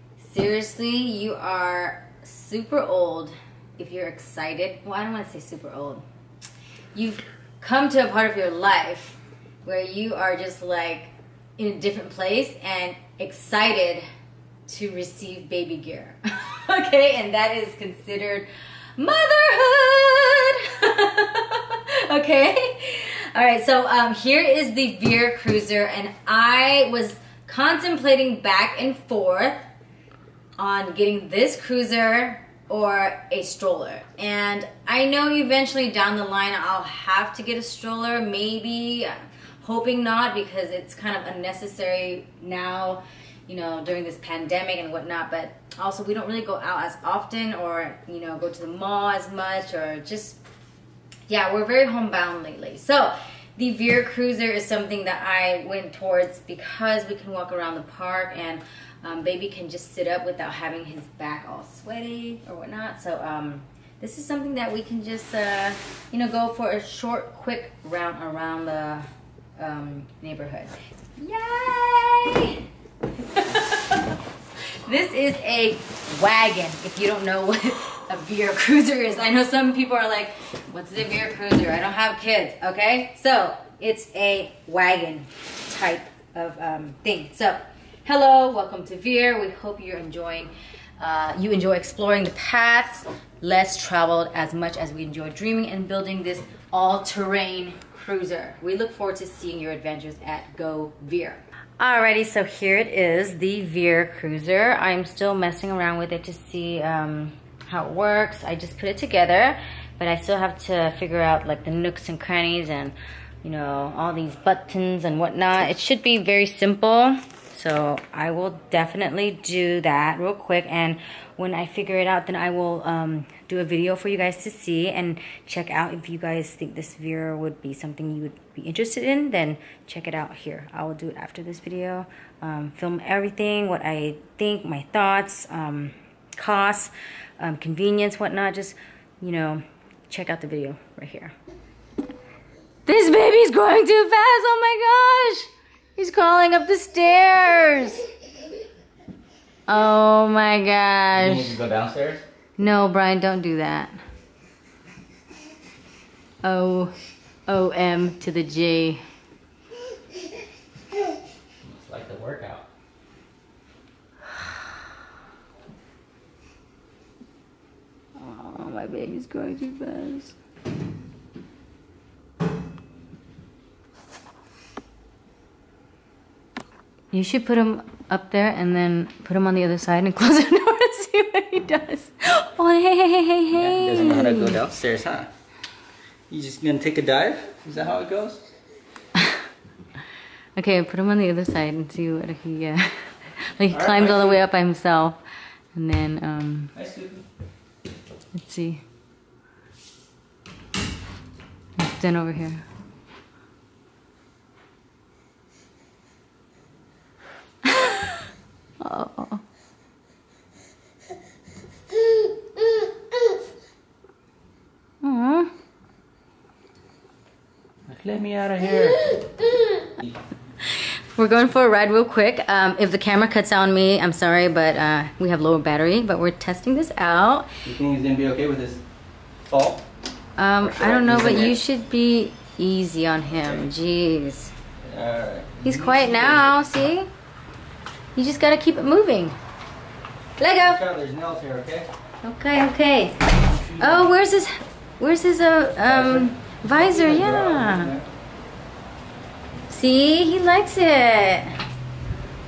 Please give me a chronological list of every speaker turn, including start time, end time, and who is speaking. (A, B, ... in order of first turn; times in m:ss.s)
0:00.2-0:06.0 A
0:06.9-0:14.0 A
0:14.7-0:29.6 A
0:30.6-0:50.4 A
0:51.3-1:09.0 A
1:09.6-1:12.6 A
1:13.2-1:14.2 A
1:14.8-2:21.3 A
2:22.8-2:28.0 A
2:29.7-2:31.6 A
2:31.1-2:32.2 B
2:32.6-2:34.0 A
2:36.4-2:36.9 A
2:37.5-2:39.0 A
2:41.6-2:42.6 B
2:48.2-2:50.4 A
2:57.1-3:04.6 A
3:03.5-3:05.3 B
3:06.3-3:08.4 B
3:10.6-3:15.2 A
3:13.7-3:14.4 B
3:15.7-3:16.7 A
3:16.7-3:17.2 B
3:18.3-3:18.8 A
3:21.8-3:22.6 A
3:27.6-3:28.2 A
3:28.8-3:29.4 A
3:35.0-3:35.5 A
3:37.8-3:39.2 B
3:40.7-3:47.5 A
3:47.6-3:48.8 B
3:49.4-3:49.8 B
3:50.4-3:54.5 A
3:50.6-3:51.6 B
3:54.8-3:56.6 B
3:55.6-3:57.1 A
3:58.2-3:59.4 A
4:00.4-4:00.8 A
4:00.6-4:01.9 B
4:02.2-4:03.2 A
4:03.6-4:04.1 B
4:03.8-4:07.9 A
4:05.8-4:08.1 B
4:09.7-4:11.5 A